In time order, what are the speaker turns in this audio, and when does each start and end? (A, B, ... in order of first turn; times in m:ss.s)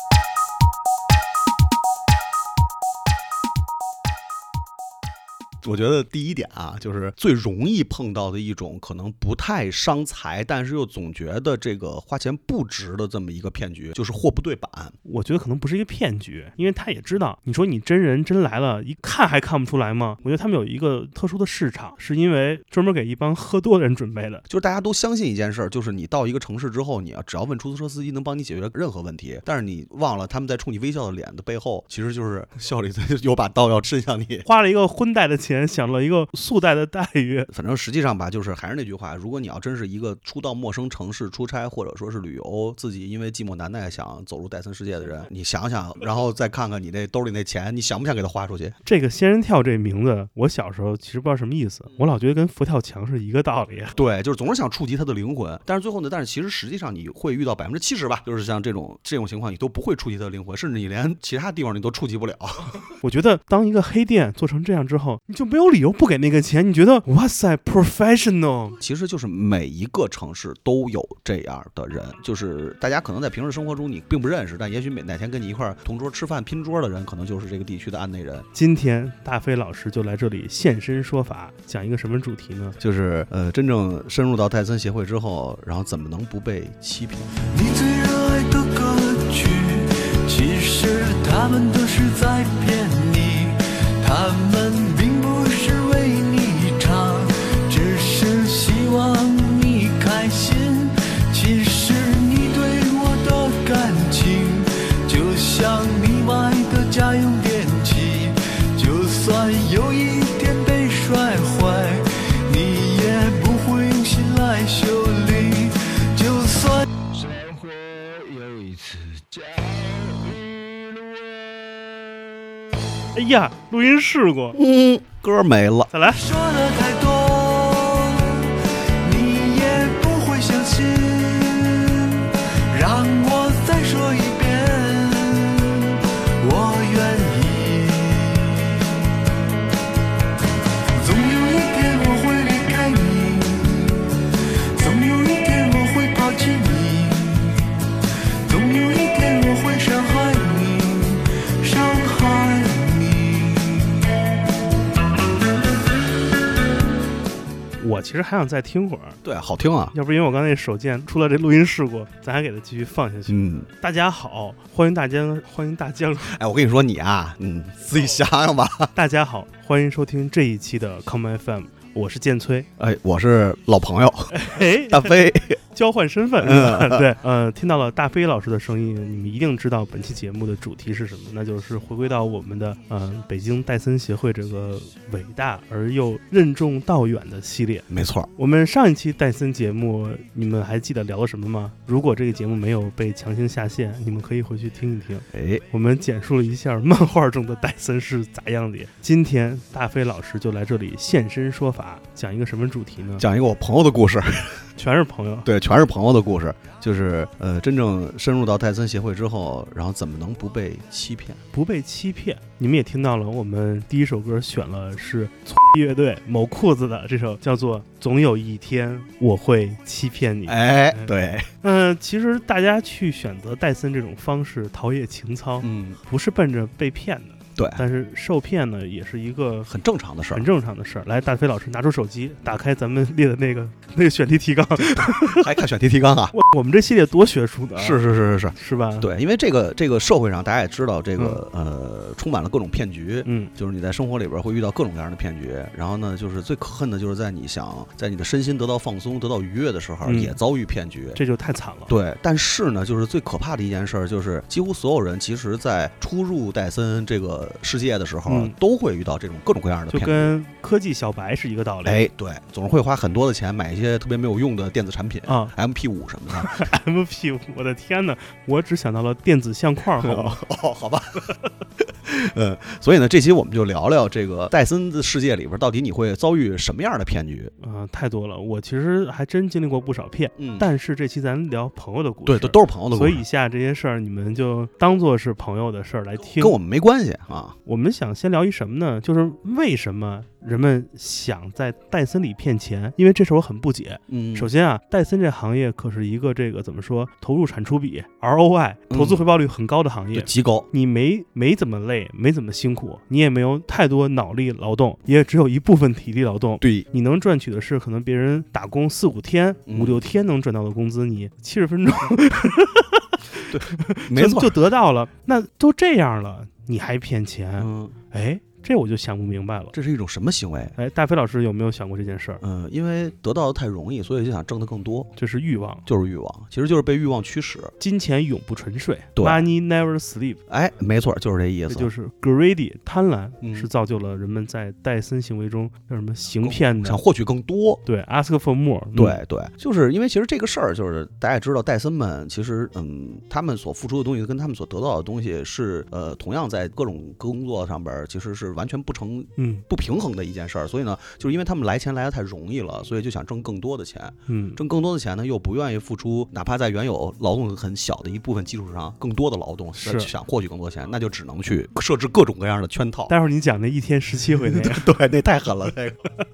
0:05.6-0:15.0 A
0:15.0-0:24.4 B
0:24.5-0:34.4 A
0:34.4-0:37.5 B
0:37.5-0:48.8 A
0:48.8-0:54.0 B
0:53.9-1:02.8 A
1:03.0-1:08.8 B
1:08.8-1:18.4 A
1:18.5-1:22.8 B
1:22.8-1:27.3 A
1:27.5-1:56.9 C
2:03.1-2:04.6 B
2:04.5-2:05.9 A
2:05.9-2:06.2 B
2:06.1-2:18.9 C
2:21.0-2:24.1 C
2:24.8-2:27.6 C
2:28.4-2:34.0 C
2:37.8-2:39.2 B
2:39.2-2:39.9 A
2:39.9-2:46.3 B
2:43.3-2:43.7 A
2:46.3-2:48.9 A
2:48.9-2:52.7 B
2:52.8-2:55.6 A
2:54.3-2:55.2 B
2:55.7-3:23.2 B
2:56.4-2:57.1 A
3:07.9-3:08.3 A
3:15.3-3:15.6 A
3:23.2-3:24.6 A
3:24.8-3:25.5 B
3:25.4-3:31.4 A
3:31.5-3:49.7 B
3:40.4-3:41.5 A
3:45.6-3:46.0 A
3:47.6-3:47.8 A
3:49.6-3:50.4 A
3:50.3-3:55.5 B
3:54.9-3:56.3 A
3:56.3-3:58.0 B
3:57.8-4:11.2 A
3:58.5-3:59.1 B
4:03.2-4:03.5 B
4:10.0-4:10.4 B
4:11.1-4:11.9 B
4:11.9-4:20.3 A
4:18.3-4:18.5 B
4:19.9-4:22.1 B
4:21.8-4:26.6 A
4:25.2-4:25.5 B
4:26.5-4:30.4 B
4:30.0-4:31.3 A
4:31.8-4:37.5 A
4:37.6-4:46.5 B
4:40.4-4:40.7 A
4:42.2-4:43.2 A
4:46.2-4:47.5 A
4:47.6-5:13.1 B
4:54.1-4:54.5 A
4:58.9-4:59.3 A
5:00.1-5:00.7 A
5:06.6-5:06.9 A
5:09.7-5:10.0 A
5:13.5-5:14.6 A
5:13.7-5:19.7 B
5:17.6-5:18.0 A
5:19.7-5:20.8 A
5:20.8-5:22.4 B
5:22.4-5:25.1 A
5:25.2-5:25.8 B
5:25.8-5:27.7 A
5:27.8-5:30.4 B
5:29.2-5:29.5 A
5:30.5-5:31.9 A
5:31.7-5:37.0 B
5:33.4-5:33.7 A
5:36.4-5:37.8 A
5:37.8-5:39.2 B
5:38.9-6:03.1 A
5:49.4-5:49.6 B
5:54.3-5:54.6 B
5:59.8-6:00.1 B
6:03.1-6:04.9 B
6:04.4-6:06.0 A